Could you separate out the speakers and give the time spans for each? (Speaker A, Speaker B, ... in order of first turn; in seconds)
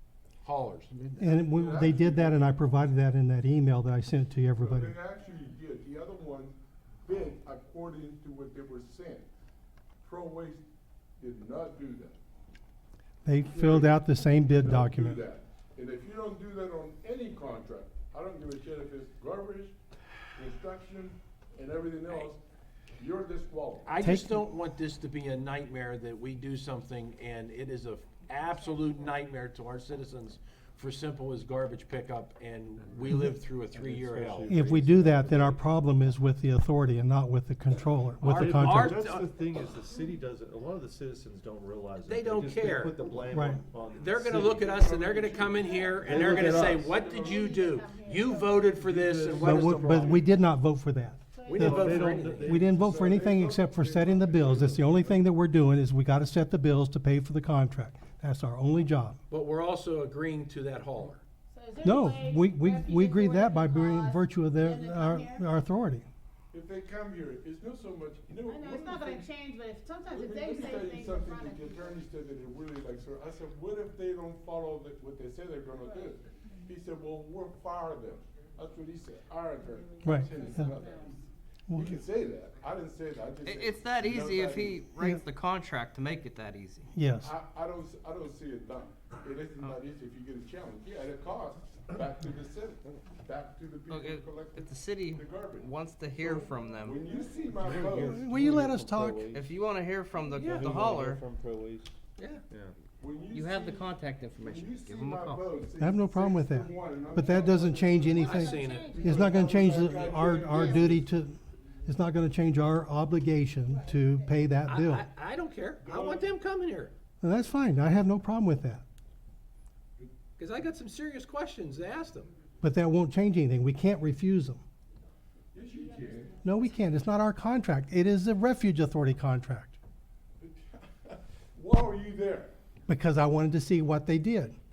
Speaker A: 0.4-1.0, 23.9-34.5, 38.2-39.3, 42.1-43.0, 43.9-50.3, 51.5-52.6, 59.3-61.2, 100.4-100.8, 102.2-102.4, 108.2-109.0, 114.7-116.9, 120.4-122.3
Speaker B: 1.2-5.0, 13.2-15.2, 24.0-24.3, 34.5-39.0, 43.3-43.6, 49.4-59.2, 61.8-66.1, 80.0-80.7, 81.7-82.0, 86.9-87.3, 97.7-99.3, 105.8-115.1, 117.2-118.8, 122.6-124.6, 126.4-129.8, 132.9-134.6
Speaker C: 1.4-2.6, 4.6-9.3, 10.0-10.6, 11.2-12.2, 13.4-14.0, 14.5-19.8, 20.4-22.4, 23.0-23.9, 44.6-47.6, 52.8-55.2, 66.5-69.3, 70.1-84.8, 87.2-98.3, 103.0-111.1, 115.8-116.3, 125.5-126.3, 130.4-132.6
Speaker D: 33.7-35.6, 38.2-44.9, 46.0-47.1, 48.7-50.2, 51.6-53.1, 97.6-99.5, 100.3-101.9, 102.5-102.8
Speaker E: 45.5-48.8, 51.3-51.7, 61.5-65.5, 68.5-71.9, 79.7-81.2, 107.2-107.5, 108.1-110.9, 113.7-114.3, 125.7-126.8
Speaker F: 83.4-86.9, 93.9-97.0, 99.3-101.2, 103.3-105.5